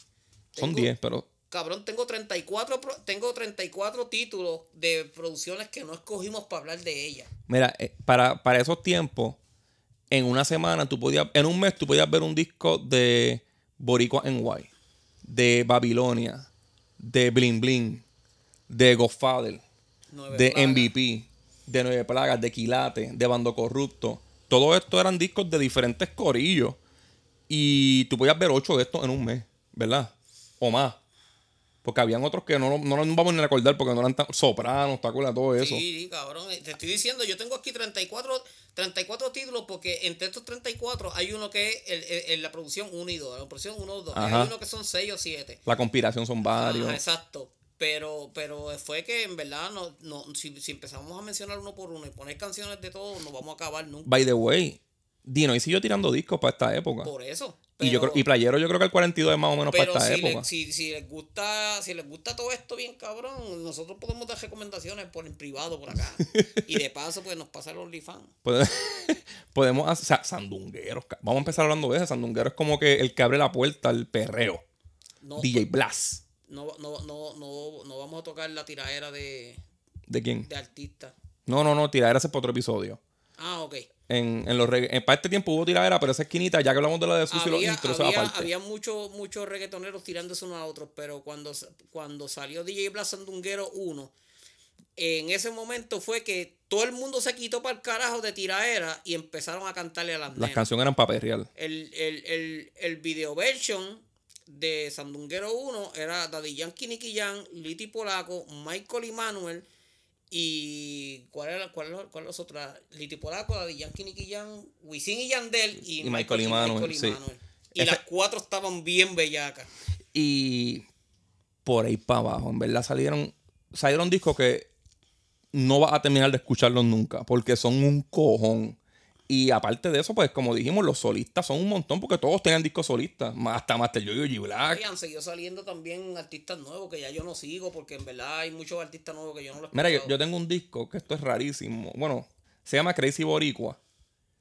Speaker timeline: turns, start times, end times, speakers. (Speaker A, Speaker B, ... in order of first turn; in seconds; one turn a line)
Speaker A: 0.6-0.9
Speaker B: 0.6-1.3
Speaker A: 1.5-7.3
Speaker B: 7.5-9.4
Speaker B: 10.1-14.7
Speaker B: 15.2-18.0
Speaker B: 18.7-19.6
Speaker A: 20.1-20.9
Speaker B: 20.3-26.8
Speaker B: 27.5-31.0
Speaker B: 31.8-35.8
Speaker A: 35.6-45.6
Speaker B: 44.1-44.5
Speaker B: 45.7-47.0
Speaker A: 46.5-54.1
Speaker B: 54.1-57.1
Speaker A: 57.0-58.2
Speaker B: 57.8-60.5
Speaker A: 59.7-68.3
Speaker B: 66.3-66.6
Speaker B: 68.5-74.6
Speaker A: 75.2-75.7
Speaker B: 75.4-76.2
Speaker A: 76.4-79.6
Speaker B: 80.1-80.5
Speaker A: 80.4-81.2
Speaker B: 81.5-83.0
Speaker A: 83.4-83.9
Speaker B: 84.1-88.5
Speaker A: 87.3-94.1
Speaker A: 95.0-100.7
Speaker B: 100.3-101.5
Speaker A: 101.5-109.7
Speaker A: 110.3-119.7
Speaker B: 115.8-117.2
Speaker B: 117.8-118.0
Speaker B: 120.1-120.9
Speaker B: 121.7-124.7
Speaker B: 125.5-128.8
Speaker B: 129.3-134.8
Speaker A: 134.7-140.1
Speaker B: 139.7-143.8